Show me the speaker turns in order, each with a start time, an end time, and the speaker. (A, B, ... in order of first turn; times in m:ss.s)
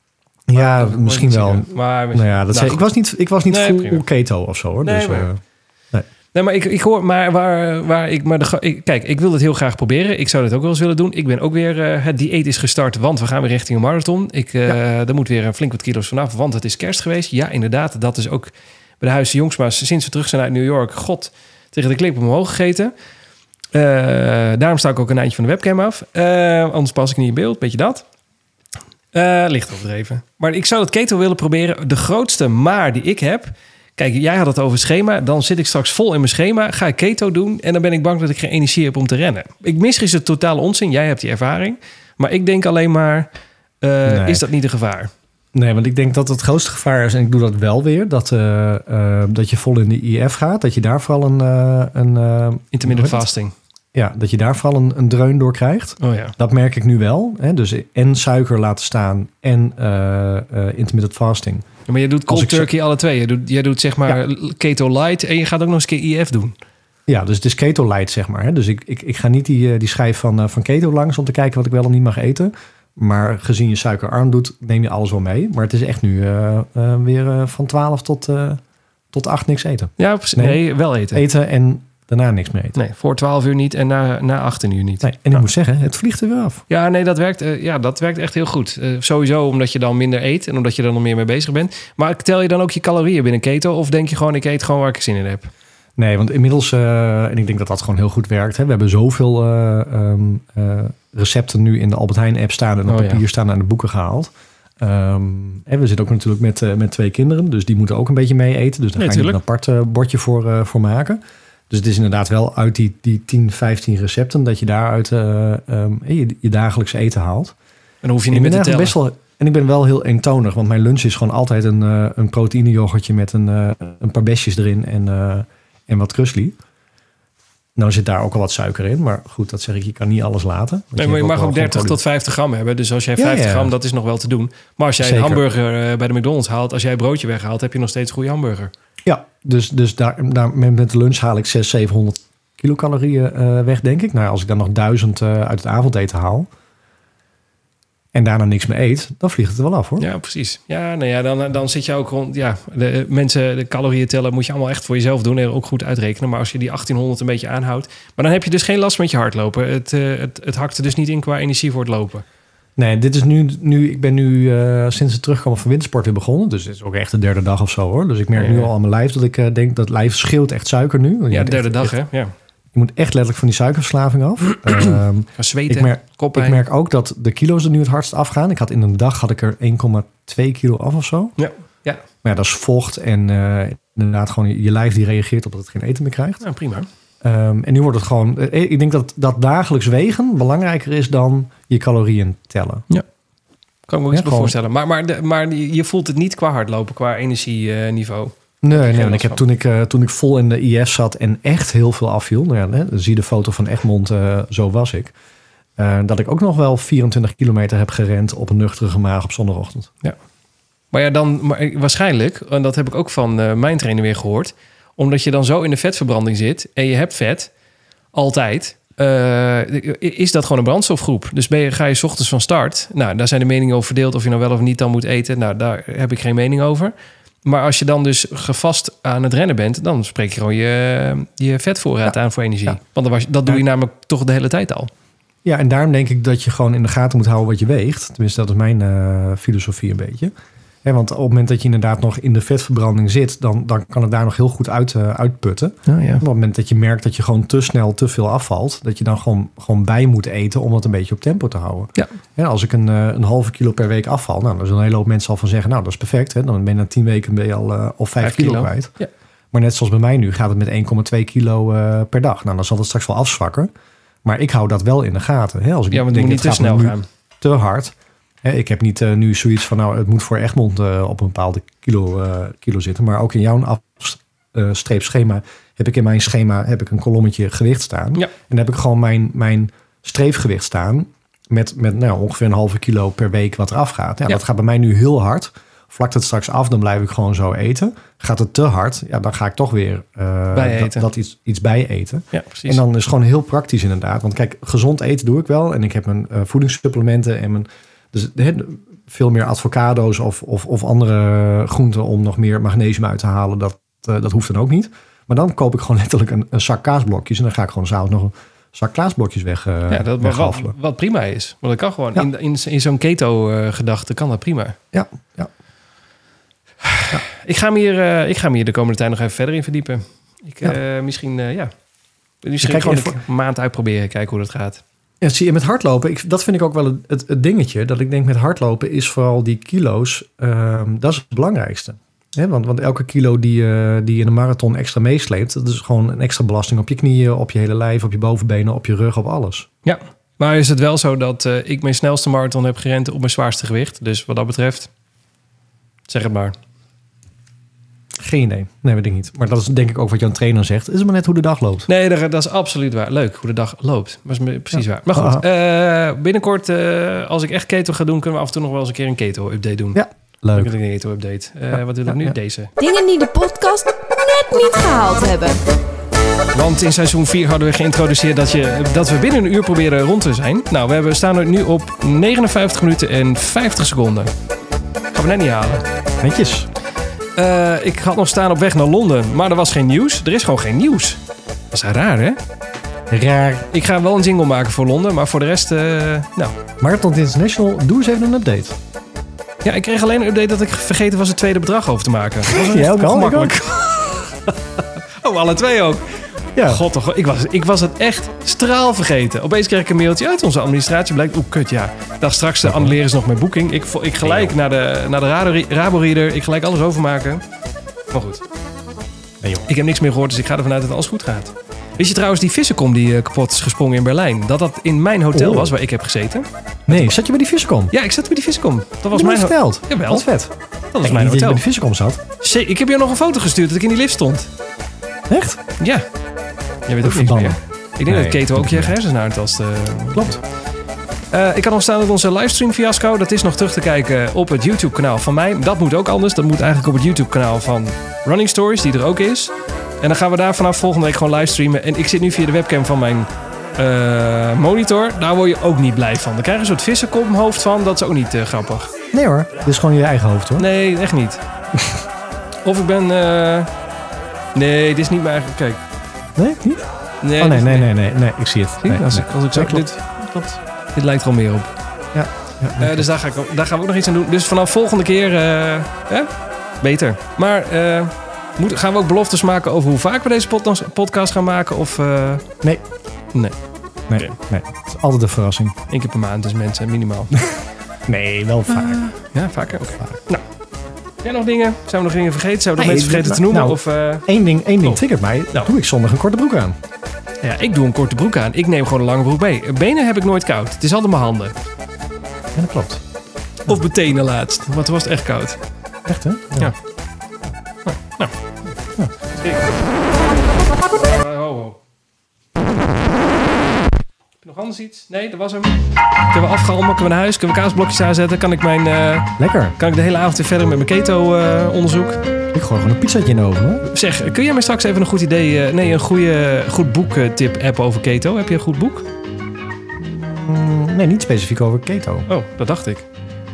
0:00.5-0:05.4 A
0:00.6-0:02.8 B
0:03.5-0:04.0 B
0:04.8-0:05.3 B
0:06.3-0:22.9 B
0:23.7-0:28.0 B
0:29.1-0:43.3 B
0:43.8-0:45.1 B
0:44.1-0:44.4 A
0:45.5-0:53.3 A
0:52.7-0:53.5 B
0:53.9-1:01.7 A
0:56.0-0:56.4 B
1:01.9-1:06.5 B
1:02.3-1:02.7 A
1:07.1-1:18.6 A
1:19.1-1:20.6 A
1:20.0-1:21.2 B
1:21.1-1:22.8 A
1:22.8-1:25.4 B
1:25.0-1:26.6 A
1:26.7-1:35.5 B
1:36.0-1:57.6 A
1:42.9-1:43.2 B
1:49.0-1:49.4 B
1:58.0-1:59.0 B
1:58.3-2:06.6 A
2:07.8-2:12.0 A
2:11.0-2:18.7 B
2:13.2-2:13.7 A
2:15.0-2:15.4 A
2:19.0-2:26.5 A
2:28.1-2:30.1 A
2:30.0-2:42.2 B
2:42.8-2:51.9 A
2:48.4-2:48.7 B
2:51.3-2:52.3 B
2:52.7-3:01.4 A
2:55.4-2:56.6 B
3:01.4-3:02.0 B
3:02.2-3:06.4 A
3:06.4-3:06.9 B
3:07.2-3:12.9 A
3:13.9-3:19.4 B
3:14.1-3:14.6 A
3:18.6-3:25.1 A
3:25.8-3:29.9 A
3:30.9-3:37.5 B
3:38.1-3:46.9 B
3:47.4-3:54.9 B
3:55.4-4:00.3 A
4:00.8-4:18.9 A
4:05.9-4:06.2 B
4:18.2-4:19.1 B
4:19.5-4:23.7 A
4:24.2-5:10.8 A
4:25.9-4:27.0 B
4:50.5-4:51.1 B
4:52.3-4:52.8 B
5:09.9-5:14.8 B
5:14.9-5:15.5 A
5:16.8-5:21.7 B
5:22.4-5:24.8 B
5:22.6-5:23.2 A
5:25.2-5:39.7 A
5:39.8-5:44.9 B
5:46.1-5:46.6 B
5:48.2-5:51.9 A
5:51.9-6:00.0 B
5:55.1-5:55.4 A
6:00.0-6:00.7 A
6:00.6-6:02.7 B
6:02.1-6:02.4 A
6:02.8-6:05.6 C
6:06.5-6:14.3 B
6:15.1-6:15.8 B
6:16.2-6:16.7 A
6:17.4-6:21.2 B
6:21.7-6:22.4 B
6:23.1-6:23.7 A
6:23.7-6:26.6 B
6:26.8-6:28.8 A
6:29.6-6:47.4 B
6:32.5-6:33.6 A
6:36.6-6:36.8 A
6:42.6-6:43.0 A
6:44.2-6:44.5 A
6:48.1-6:48.4 B
6:49.4-6:49.7 A
6:49.7-6:57.1 B
6:55.3-6:55.7 A
6:56.9-6:57.9 A
6:57.9-7:00.3 B
6:59.1-7:02.2 A
7:00.9-7:01.6 B
7:02.4-7:04.5 B
7:05.3-7:05.6 A
7:05.8-7:06.0 B
7:06.9-7:10.4 B
7:07.0-7:09.0 A
7:11.3-7:28.9 B
7:29.1-7:30.6 A
7:30.6-7:31.4 B
7:31.8-7:32.0 A
7:32.6-7:33.7 B
7:34.6-7:35.8 B
7:36.4-7:36.9 A
7:37.2-7:37.9 B
7:37.4-7:40.6 A
7:38.8-7:40.0 B
7:41.0-7:41.7 B
7:42.1-7:43.1 A
7:42.8-7:52.5 B
7:54.1-7:55.8 A
7:55.9-7:57.4 B
7:58.1-7:59.0 A
7:58.7-8:00.4 B
8:01.2-8:04.3 B
8:02.8-8:06.8 A
8:07.4-8:11.6 B
8:12.6-8:13.0 A
8:13.6-8:15.6 B
8:16.1-8:16.7 A
8:17.8-8:18.3 B
8:19.3-8:20.0 B
8:20.9-8:21.8 B
8:24.4-8:32.2 B
8:29.4-8:29.8 A
8:32.5-8:33.9 A
8:33.9-8:39.1 B
8:40.0-8:42.3 A
8:42.3-8:43.1 B